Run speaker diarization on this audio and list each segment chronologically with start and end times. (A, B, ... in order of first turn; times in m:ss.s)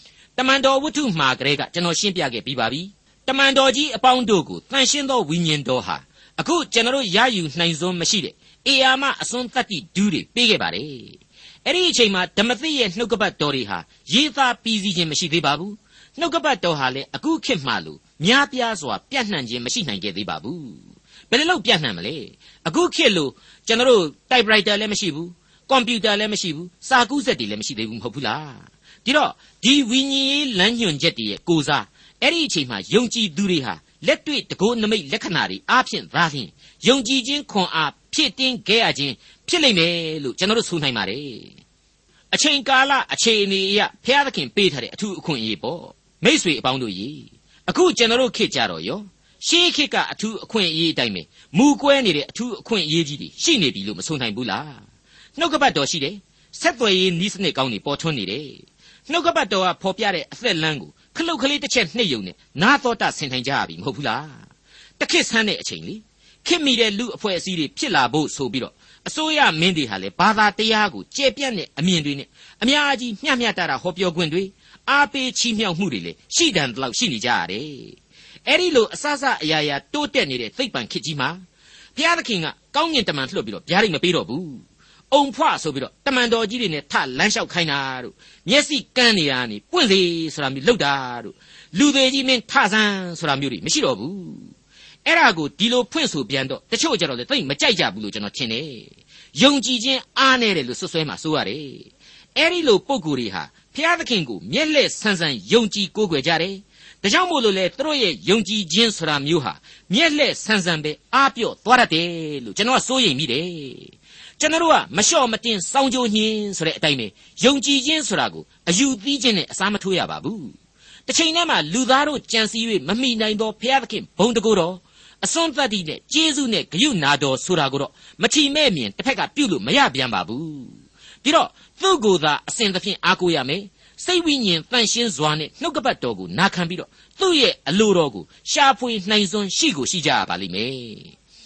0:00.4-0:41.6 A
0:42.3-0:54.8 A
0:55.4-1:04.4 A
1:05.0-1:21.4 A
1:22.0-1:34.5 A
1:35.0-2:00.5 A
2:01.1-2:21.1 A